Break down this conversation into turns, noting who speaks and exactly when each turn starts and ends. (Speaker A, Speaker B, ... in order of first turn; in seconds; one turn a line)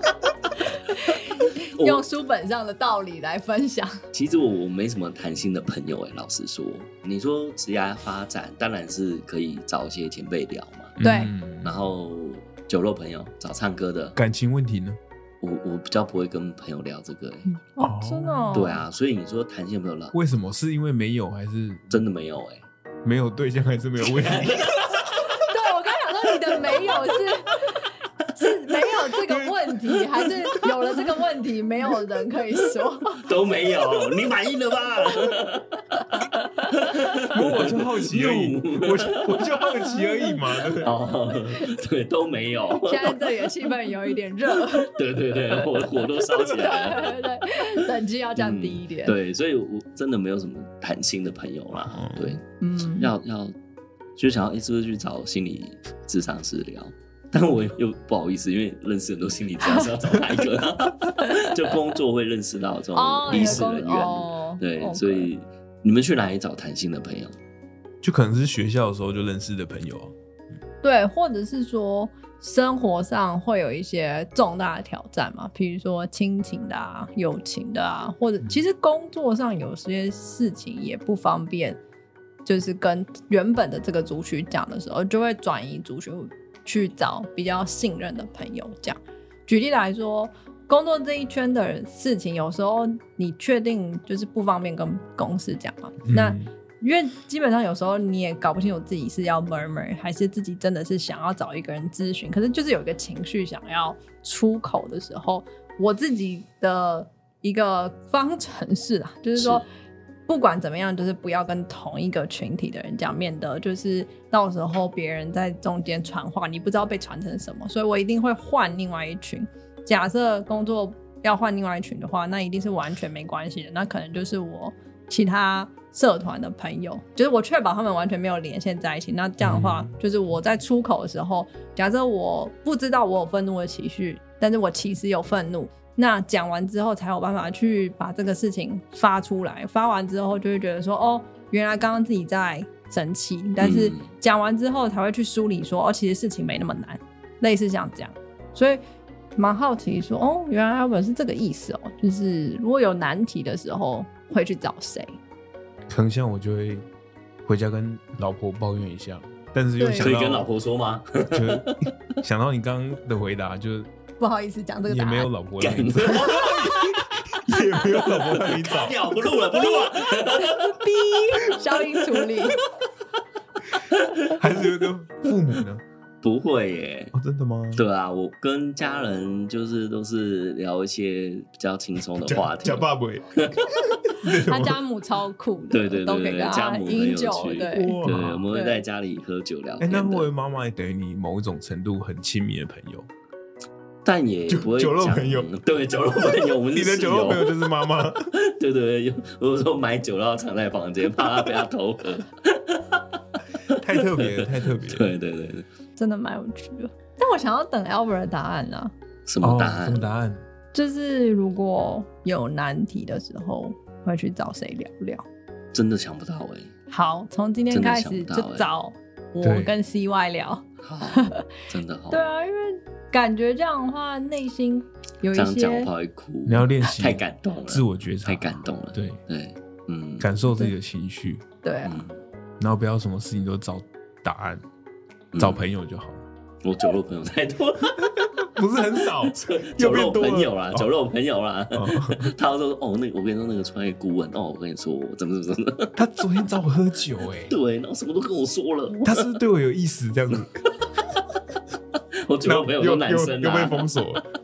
Speaker A: 0.9-4.0
Speaker B: 1.8-2.0
Speaker B: 4.1-11.0
Speaker C: 11.0-11.8
Speaker A: 11.0-11.3
Speaker B: 11.6-14.2
Speaker C: 14.2-15.0
Speaker B: 15.4-17.5
Speaker A: 17.8-18.8
Speaker C: 17.8-18.8
Speaker B: 18.5-20.2
Speaker C: 20.1-22.0
Speaker B: 21.9-22.7
Speaker C: 23.1-25.3
Speaker B: 24.0-25.3
Speaker A: 25.3-33.3
Speaker C: 29.2-31.1
Speaker B: 33.2-39.9
Speaker A: 36.0-36.9
Speaker C: 37.3-40.9
Speaker A: 40.0-40.3
Speaker B: 40.8-43.7
Speaker A: 42.8-45.0
Speaker B: 44.6-47.3
Speaker A: 46.2-49.2
Speaker B: 48.4-52.4
Speaker C: 51.8-52.4
Speaker A: 52.6-53.1
Speaker B: 53.0-53.5
Speaker B: 54.2-67.3
Speaker A: 63.0-65.3
Speaker C: 68.0-70.1
Speaker A: 70.8-81.8
Speaker A: 82.5-109.7
Speaker C: 96.0-96.5
Speaker B: 109.4-109.6
Speaker A: 110.3-148.8
Speaker C: 129.4-129.9
Speaker B: 143.6-144.1
Speaker A: 149.4-155.1
Speaker C: 155.9-156.9
Speaker C: 157.4-160.5
Speaker A: 159.8-160.1
Speaker B: 160.0-161.8
Speaker C: 161.3-163.9
Speaker A: 164.2-165.3
Speaker C: 164.9-169.0
Speaker B: 165.6-166.5
Speaker A: 166.3-167.0
Speaker A: 167.8-168.2
Speaker B: 168.1-170.8
Speaker A: 169.6-172.6
Speaker B: 173.9-174.7
Speaker C: 174.3-175.8
Speaker B: 176.2-177.1
Speaker C: 177.1-177.8
Speaker B: 177.8-183.7
Speaker C: 182.2-184.8
Speaker A: 184.4-188.8
Speaker B: 185.7-190.3
Speaker C: 187.7-188.5
Speaker C: 189.8-193.1
Speaker B: 194.1-197.5
Speaker C: 194.5-195.5
Speaker C: 196.7-198.3
Speaker B: 198.3-205.7
Speaker C: 203.8-205.2
Speaker A: 206.0-208.9
Speaker B: 209.3-210.0
Speaker C: 209.4-210.4
Speaker A: 210.7-215.2
Speaker B: 215.7-216.7
Speaker A: 216.9-221.5
Speaker B: 217.7-218.7
Speaker C: 219.4-219.8
Speaker B: 220.8-222.2
Speaker A: 222.1-225.9
Speaker B: 225.3-230.3
Speaker C: 226.5-229.2
Speaker C: 230.2-231.4
Speaker A: 231.6-232.0
Speaker B: 231.8-232.2
Speaker C: 232.6-234.6
Speaker B: 235.3-235.7
Speaker C: 235.4-236.2
Speaker B: 236.6-238.3
Speaker C: 238.0-240.9
Speaker B: 239.1-245.9
Speaker C: 241.7-242.3
Speaker C: 246.0-247.6
Speaker B: 247.5-249.3
Speaker C: 248.9-250.6
Speaker B: 252.2-253.9
Speaker C: 252.4-254.3